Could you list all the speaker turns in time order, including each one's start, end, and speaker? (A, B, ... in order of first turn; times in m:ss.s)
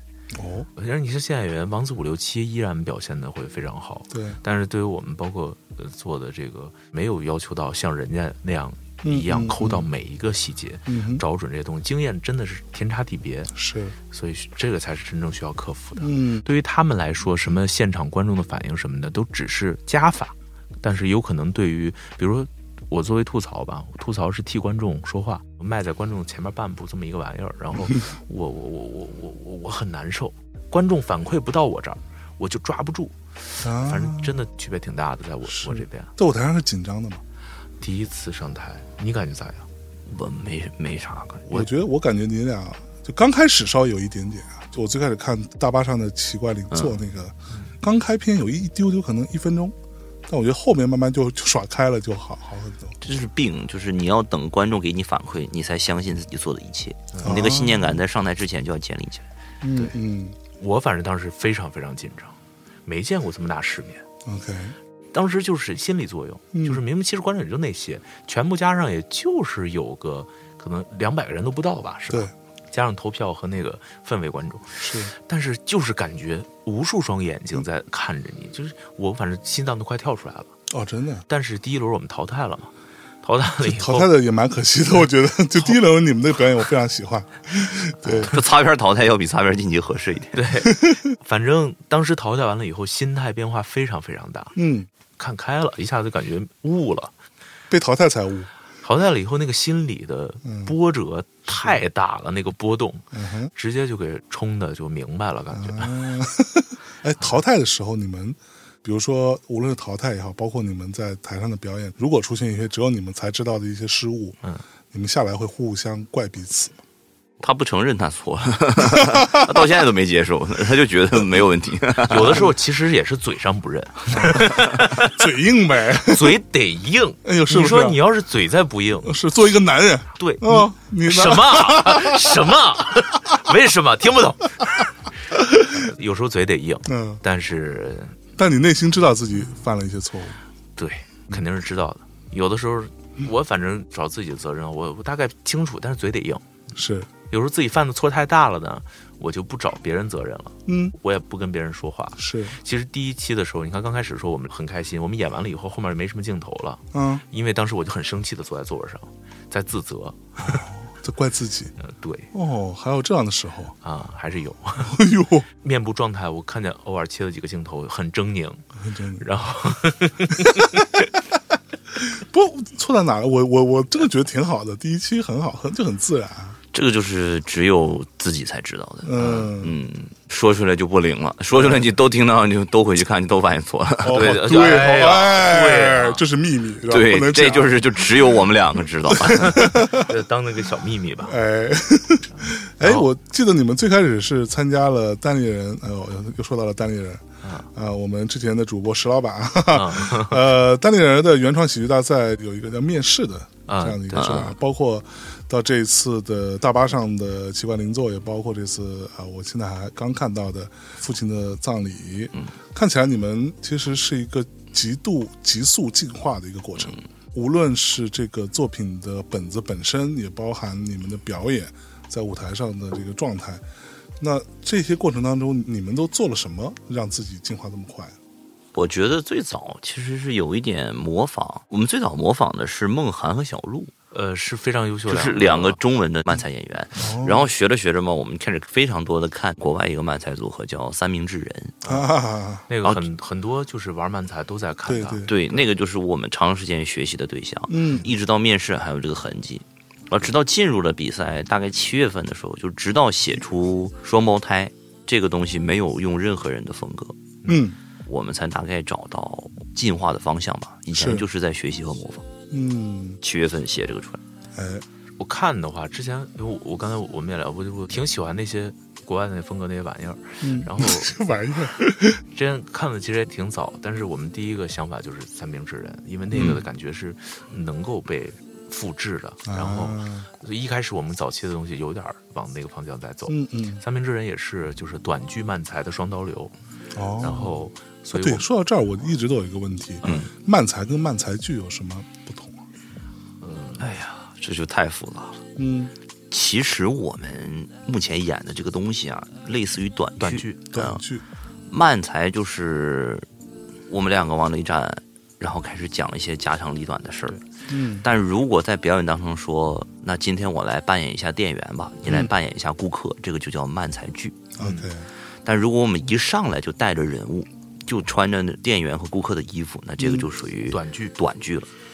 0:00.3-0:00.7 A
0:00.8-0:13.5 B
0:04.1-0:04.4 A
0:09.0-0:09.8 A
0:10.9-0:11.2 A
0:13.5-0:14.0 A
0:14.1-0:36.1 B
0:16.0-0:16.4 A
0:33.6-0:34.4 A
0:35.5-0:37.2 A
0:37.8-0:39.7 B
0:40.1-0:41.5 C
0:41.5-0:49.8 A
0:46.7-0:47.0 C
0:50.3-0:53.0 A
0:53.0-0:59.3 C
0:57.2-0:58.0 A
0:59.6-1:00.4 A
1:00.6-1:04.0 B
1:04.2-1:04.8 A
1:05.1-1:20.5 B
1:06.5-1:06.8 A
1:14.8-1:15.1 A
1:20.7-1:21.3 A
1:21.3-1:22.7 B
1:23.2-1:24.1 B
1:23.6-1:28.3 A
1:28.1-1:30.4 C
1:30.4-1:34.5 B
1:34.6-1:34.9 A
1:35.2-1:37.1 B
1:37.7-1:38.5 A
1:38.8-1:46.2 B
1:40.4-1:40.7 A
1:43.1-1:43.5 A
1:45.6-1:54.4 A
1:54.9-1:56.8 A
1:57.4-2:02.4 C
1:59.1-1:59.4 A
2:02.1-2:05.2 B
2:04.2-2:06.4 A
2:06.0-2:09.2 B
2:07.2-2:08.0 A
2:09.0-2:12.2 A
2:10.2-2:14.9 B
2:15.7-2:18.2 B
2:16.9-2:17.2 A
2:18.4-2:20.4 A
2:20.8-2:26.4 B
2:26.7-2:27.1 A
2:27.3-2:40.7 B
2:30.7-2:31.0 A
2:32.2-2:32.6 A
2:36.9-2:37.2 A
2:40.4-2:41.7 A
2:41.8-2:42.3 B
2:42.3-2:43.8 A
2:43.8-2:45.0 B
2:44.8-2:45.5 A
2:45.6-2:48.6 B
2:48.8-2:49.2 A
2:49.2-2:51.1 B
2:50.5-2:50.8 A
2:51.9-2:56.6 A
2:56.7-3:04.4 C
2:59.0-2:59.8 A
3:01.5-3:01.9 A
3:04.0-3:07.8 A
3:04.1-3:06.2 B
3:06.9-3:09.6 C
3:09.1-3:10.1 A
3:09.8-3:11.4 B
3:11.2-3:43.6 A
3:17.4-3:17.7 B
3:19.7-3:20.4 B
3:23.7-3:24.3 B
3:24.1-3:24.5 C
3:44.2-3:48.2 A
3:48.7-3:53.9 C
3:54.1-3:55.8 B
3:55.1-4:01.8 C
3:57.0-3:57.5 A
4:01.9-4:02.7 A
4:02.7-4:05.6 B
4:04.9-4:05.3 A
4:05.3-4:17.2 C
4:07.7-4:08.1 A
4:17.5-4:17.8 A
4:18.1-4:22.3 C
4:21.0-4:21.2 A
4:22.5-4:23.2 A
4:23.2-4:24.2 C
4:24.6-4:24.8 A
4:25.2-4:31.2 B
4:30.4-4:32.2 A
4:32.3-4:46.5 B
4:36.3-4:36.6 A
4:39.4-4:40.3 A
4:43.3-4:43.8 A
4:46.9-4:47.6 A
4:47.2-4:48.4 B
4:48.1-4:52.7 A
4:50.0-4:50.3 B
4:53.4-4:54.1 B
4:53.8-4:55.4 C
4:55.6-4:55.9 A
4:56.3-5:01.0 C
5:00.2-5:00.6 B
5:00.7-5:01.2 A
5:01.7-5:03.3 C
5:03.9-5:07.4 C
5:07.7-5:08.1 A
5:08.0-5:14.6 C
5:12.1-5:12.3 A
5:14.6-5:15.1 A
5:14.6-5:14.9 B
5:15.4-5:21.7 C
5:20.0-5:20.3 A
5:20.7-5:21.2 B